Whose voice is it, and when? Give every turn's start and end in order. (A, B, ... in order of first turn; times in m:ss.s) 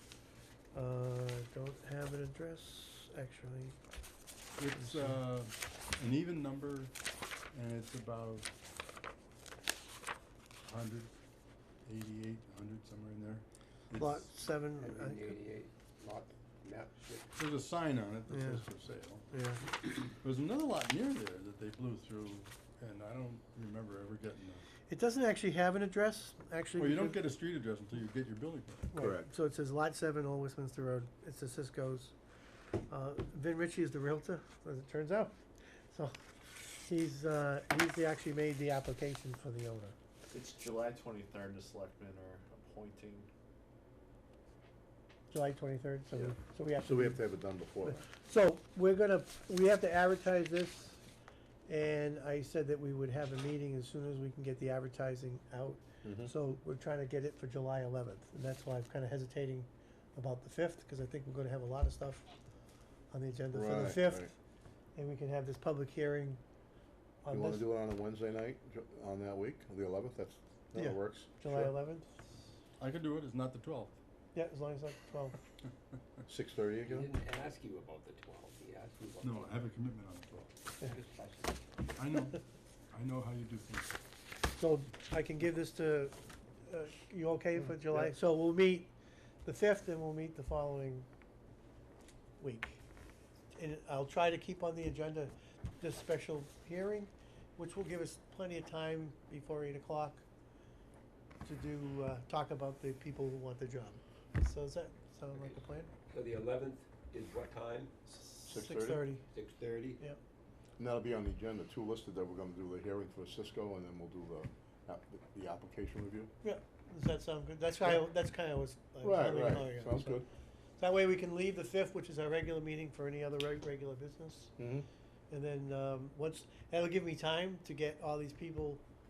0:00.7-0:03.8 A
0:04.6-0:06.9 B
0:04.7-0:05.2 A
0:07.5-0:08.5 B
0:10.6-0:11.1 B
0:11.8-0:14.2 B
0:13.9-0:15.3 A
0:14.8-0:17.3 C
0:17.4-0:19.2 B
0:18.3-0:18.6 A
0:19.3-0:19.6 A
0:20.2-0:24.6 B
0:24.9-0:27.2 A
0:26.8-0:28.9 B
0:28.9-0:32.1 A
0:29.0-0:29.3 D
0:32.9-0:35.4 A
0:35.9-0:40.0 A
0:40.3-0:43.3 E
0:45.3-0:47.2 A
0:46.1-0:48.0 D
0:47.8-0:51.0 A
0:51.7-1:02.3 A
0:56.0-0:56.3 D
1:03.1-1:04.3 A
1:03.5-1:04.3 D
1:05.0-1:06.4 A
1:07.2-1:07.6 A
1:07.3-1:11.7 D
1:10.8-1:12.1 A
1:12.8-1:14.0 B
1:14.3-1:15.4 A
1:16.3-1:17.1 D
1:16.8-1:19.6 C
1:19.2-1:20.5 B
1:20.8-1:21.6 C
1:22.0-1:22.4 B
1:22.9-1:23.9 B
1:24.5-1:28.9 A
1:29.4-1:31.1 A
1:32.4-1:32.8 A
1:33.5-1:40.2 A
1:41.4-1:45.9 A
1:45.3-1:47.9 C
1:48.1-1:49.2 A
1:48.4-1:49.0 D
1:49.3-1:50.0 C
1:50.8-1:56.3 D
1:56.4-2:00.2 A
1:59.0-2:00.2 D
2:00.8-2:04.5 A
2:04.6-2:04.9 D
2:05.3-2:08.8 A